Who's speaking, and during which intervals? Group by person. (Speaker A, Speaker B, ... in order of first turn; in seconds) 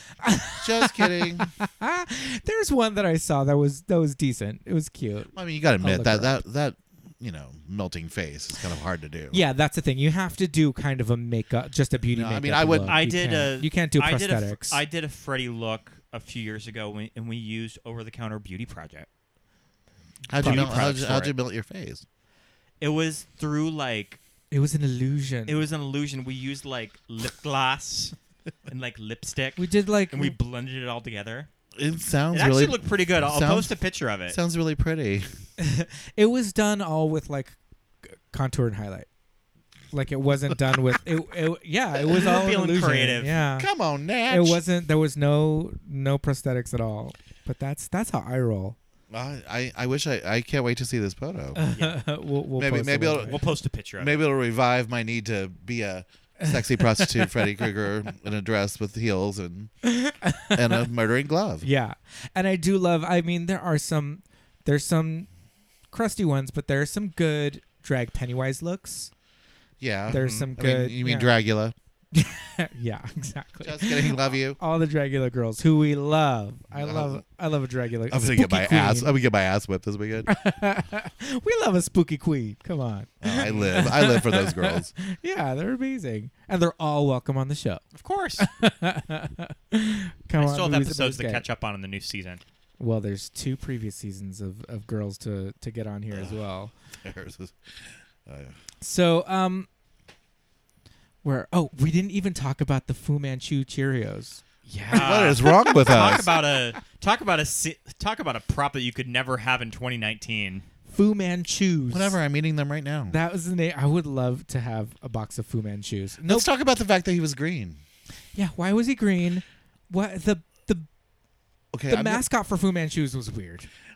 Speaker A: 0.2-6.4, 9.3-14.8, 20.4-20.8, 24.5-25.6, 29.6-30.4, 35.6-39.1, 39.9-43.7, 44.3-48.8, 51.5-53.3, 56.4-57.6, 59.8-60.9, 61.6-65.3, 65.9-69.1, 70.1-71.3, 72.1-79.1, 80.3-87.8, 88.4-91.4, 92.8-96.7, 98.8-99.7, 101.2-106.2, 110.9-112.2, 113.1-116.5, 118.3-120.9, 121.9-123.7
Speaker B: 0.6-1.5, 5.3-9.4, 12.1-13.0, 20.3-22.0, 31.8-33.8, 34.3-35.3, 43.6-44.6, 49.1-51.6, 52.6-53.4, 54.0-59.7, 60.5-61.6, 69.8-71.7, 73.6-74.6, 76.7-77.2, 78.1-80.3, 83.2-84.9, 96.1-96.4, 97.0-98.6, 104.9-106.3, 111.9-113.2, 116.2-117.8, 121.7-122.2
Speaker C: 12.9-19.1, 20.4-21.3, 22.8-24.2, 25.5-28.1, 28.7-31.5, 32.3-34.4, 42.1-43.4, 51.7-52.0, 53.2-54.2, 70.1-70.5, 83.5-83.7, 87.9-88.5, 90.4-92.4, 104.9-110.6